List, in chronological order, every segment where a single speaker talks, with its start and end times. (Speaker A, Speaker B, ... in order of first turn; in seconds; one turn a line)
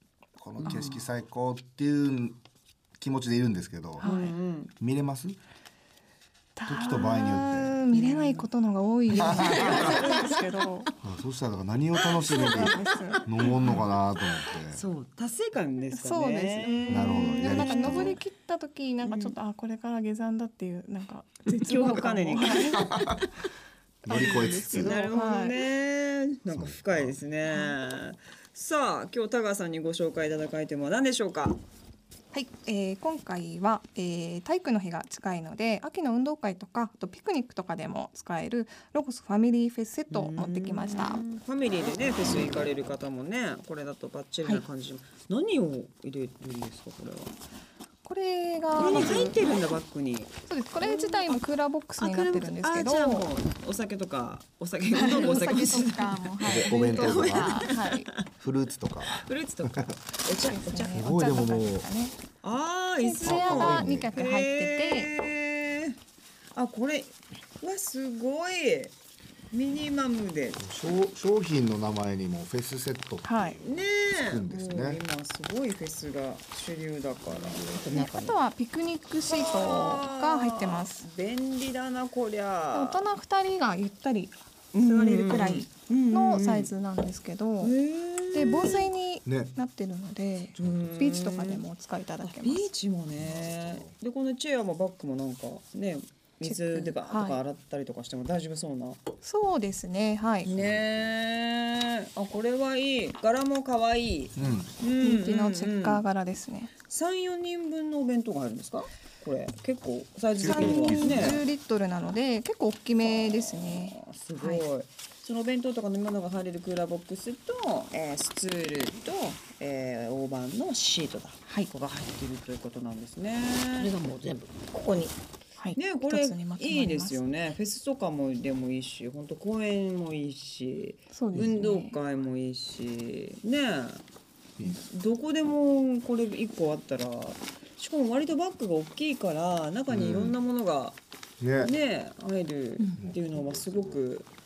Speaker A: 0.4-2.4
Speaker B: 0.6-1.0
Speaker A: 3.0-4.1
Speaker C: 4.0-4.3
Speaker B: 4.0-4.7
Speaker A: 4.8-5.4
Speaker C: 6.6-10.9
Speaker A: 6.7-7.8
Speaker B: 7.9-8.5
Speaker B: 9.1-10.5
Speaker A: 9.1-10.1
Speaker A: 11.0-14.8
Speaker C: 12.1-13.5
Speaker B: 13.4-13.8
Speaker B: 14.7-18.2
Speaker C: 15.9-23.1
Speaker A: 16.9-18.2
Speaker B: 19.0-19.4
Speaker B: 21.5-23.2
Speaker A: 22.7-23.3
Speaker A: 24.0-25.0
Speaker C: 24.1-25.6
Speaker B: 24.2-31.6
Speaker A: 26.5-27.2
Speaker C: 27.5-27.7
Speaker C: 32.3-41.2
Speaker B: 40.1-47.3
Speaker C: 48.0-49.4
Speaker B: 48.7-51.4
Speaker C: 50.5-53.3
Speaker B: 52.0-58.2
Speaker C: 55.0-58.1
Speaker A: 56.5-57.7
Speaker A: 58.4-59.9
Speaker B: 59.1-61.0
Speaker C: 60.4-62.1
Speaker A: 60.9-61.9
Speaker B: 62.4-66.0
Speaker C: 63.0-65.1
Speaker A: 63.2-64.1
Speaker B: 66.5-68.9
Speaker B: 69.5-70.6
Speaker A: 70.6-75.0
Speaker C: 73.2-73.6
Speaker B: 73.6-77.7
Speaker D: 77.5-78.4
Speaker C: 77.9-81.0
Speaker B: 79.2-83.0
Speaker C: 82.7-87.7
Speaker B: 84.7-86.7
Speaker B: 87.6-88.8
Speaker C: 88.3-92.7
Speaker A: 89.2-89.5
Speaker B: 90.6-91.6
Speaker A: 90.6-90.9
Speaker B: 92.2-99.0
Speaker A: 93.2-94.0
Speaker C: 96.4-97.4
Speaker C: 99.2-100.5
Speaker B: 100.4-106.0
Speaker A: 100.5-101.1
Speaker A: 104.4-104.7
Speaker C: 105.0-106.7
Speaker B: 106.9-111.4
Speaker A: 110.4-111.4
Speaker C: 110.4-114.6
Speaker B: 113.0-123.9
Speaker D: 123.8-125.2
Speaker C: 125.6-127.2
Speaker B: 125.8-134.0
Speaker C: 131.1-131.9
Speaker B: 134.6-141.0
Speaker A: 139.9-140.4
Speaker A: 141.4-141.8
Speaker B: 141.6-144.3
Speaker A: 142.9-144.0